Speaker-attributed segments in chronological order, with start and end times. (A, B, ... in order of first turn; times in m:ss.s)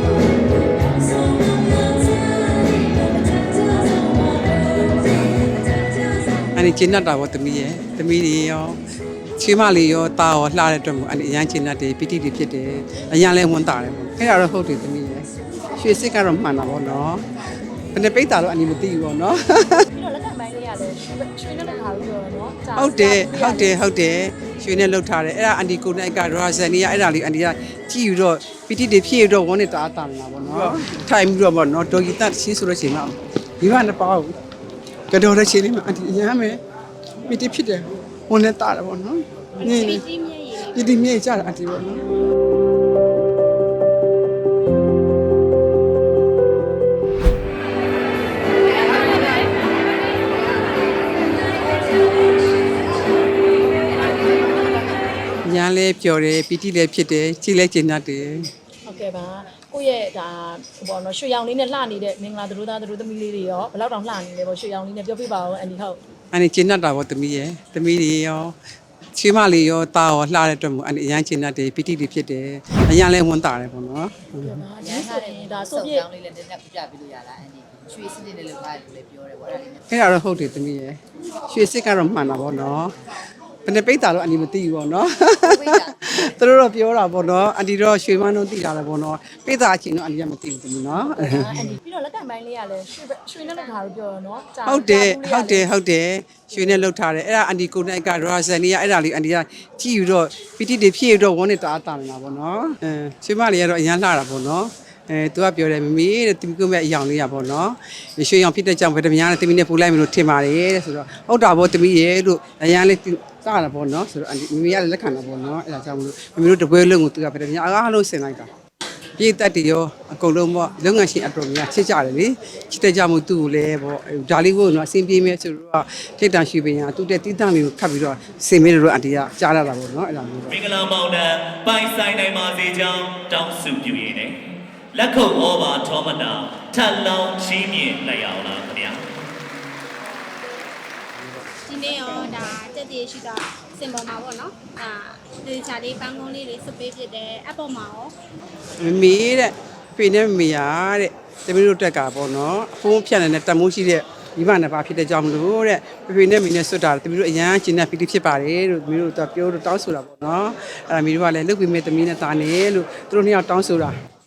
0:01.0-0:06.3 A
0:06.5-0:08.8 B
0:09.4-0:17.2 B
0:17.9-0:19.8 B
0:19.9-0:23.8 C
0:22.8-0:34.3 B
0:35.1-0:36.6 B
0:37.3-0:40.0 B
0:39.6-0:40.8 A
0:40.7-0:42.0 B
0:55.4-0:58.5 B
0:58.8-1:06.0 C
1:06.3-1:08.6 B
1:09.1-1:14.6 B
1:14.4-1:16.1 C
1:14.8-1:19.8 D
1:19.9-1:21.0 B
1:21.5-1:23.0 B
1:23.6-1:31.8 B
1:25.4-1:26.0 D
1:31.1-1:35.7 C
1:34.6-1:58.5 B
1:59.2-2:10.6 B
2:10.5-2:14.4 E
2:14.9-2:19.0 E
2:21.6-2:28.1 A
2:28.8-2:43.9 B